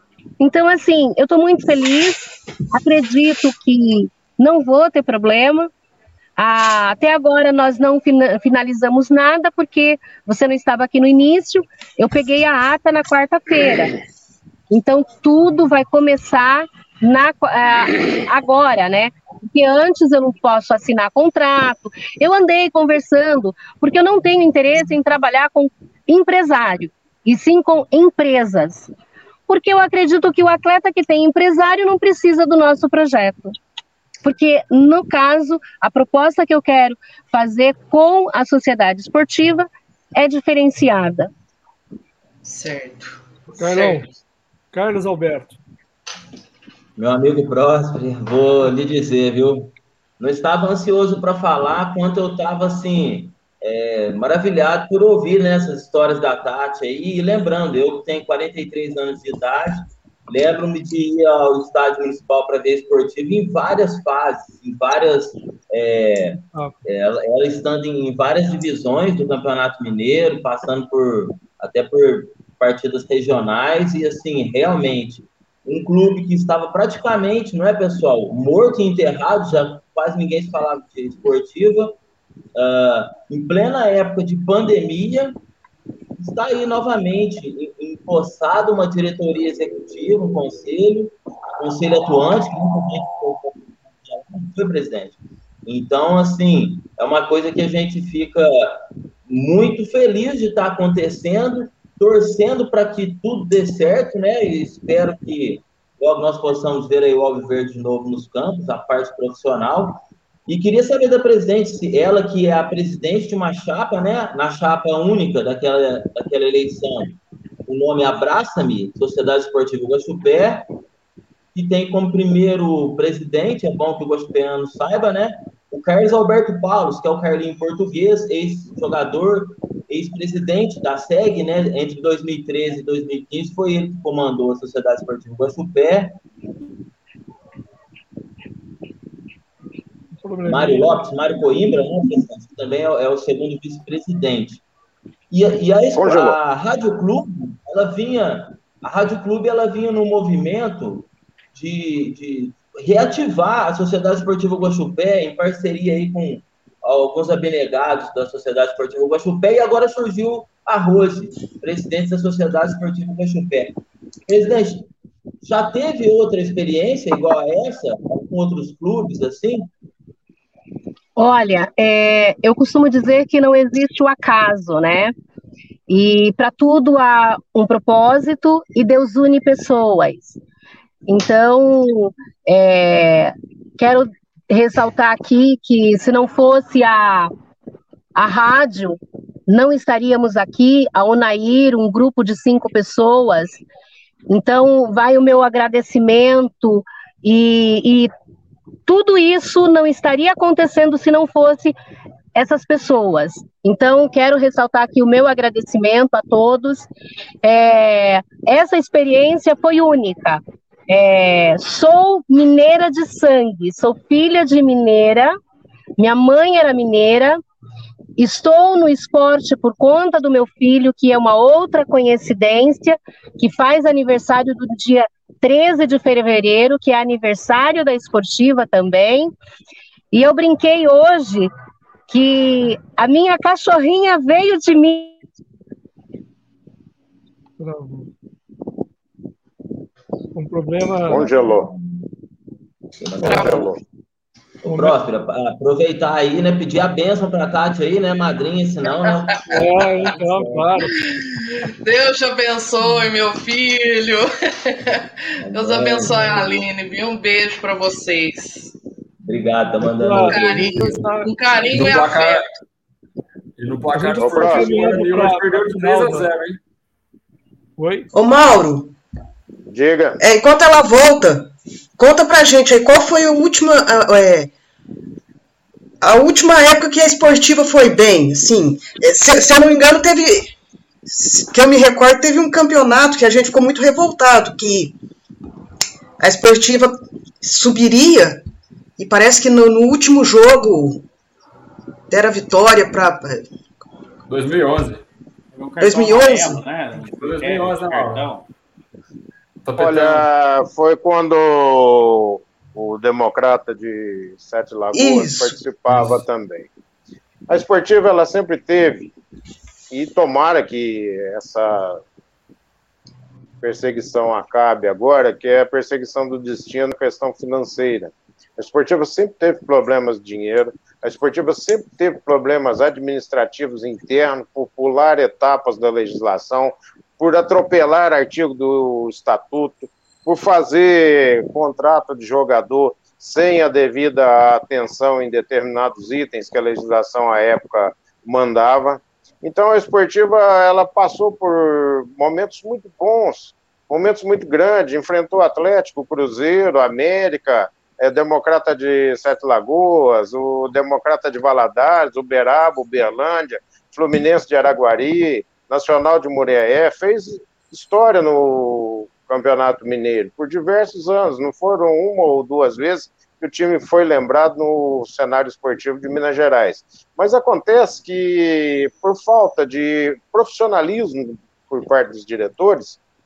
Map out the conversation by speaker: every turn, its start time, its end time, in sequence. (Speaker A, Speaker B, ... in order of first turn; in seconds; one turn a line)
Speaker A: 0.4-5.7
Speaker A: 6.4-13.9
Speaker A: 14.7-28.9
Speaker A: 29.5-33.5
Speaker A: 34.2-41.3
Speaker B: 42.4-44.0
Speaker C: 43.5-44.0
Speaker C: 44.7-45.6
Speaker D: 47.0-82.0
Speaker D: 82.5-85.3
Speaker D: 86.2-120.7
Speaker D: 121.5-136.2
Speaker C: 140.2-141.1
Speaker D: 140.4-144.6
Speaker D: 145.3-163.7
Speaker E: 145.9-146.3
Speaker D: 164.3-164.9
Speaker D: 165.4-169.7
Speaker A: 171.2-175.1
Speaker A: 175.9-180.4
Speaker A: 181.1-187.3
Speaker A: 188.1-193.6
Speaker A: 194.3-198.1
Speaker A: 198.9-201.7
Speaker A: 202.3-206.9
Speaker A: 207.4-215.3
Speaker A: 216.0-217.4
Speaker A: 218.2-229.3
Speaker A: 230.1-231.5
Speaker A: 232.1-235.2
Speaker C: 237.6-238.1
Speaker C: 240.3-241.2
Speaker E: 241.1-241.7
Speaker D: 243.0-243.7
Speaker C: 243.2-243.5
Speaker E: 243.3-243.8
Speaker D: 244.6-250.7
Speaker C: 244.7-245.0
Speaker B: 249.0-249.7
Speaker C: 249.5-250.9
Speaker B: 250.9-258.7
Speaker D: 255.4-256.7
Speaker C: 256.1-256.4
Speaker D: 259.2-261.1
Speaker C: 259.8-261.3
Speaker B: 260.2-262.4
Speaker F: 261.7-262.4
Speaker F: 263.6-266.6
Speaker C: 263.9-266.3
Speaker E: 264.2-265.0
Speaker C: 267.8-268.1
Speaker G: 268.1-268.9
Speaker E: 269.7-270.2
Speaker G: 270.2-274.5
Speaker G: 276.0-280.5
Speaker G: 281.1-284.9
Speaker G: 286.2-288.4
Speaker G: 289.0-291.0
Speaker G: 292.1-293.5
Speaker F: 294.3-295.0
Speaker H: 295.5-298.5
Speaker G: 295.8-296.6
Speaker F: 297.0-298.3
Speaker F: 299.6-300.2
Speaker E: 299.8-306.7
Speaker G: 304.9-305.6
Speaker E: 307.5-309.1
Speaker E: 309.9-312.0
Speaker E: 313.6-373.0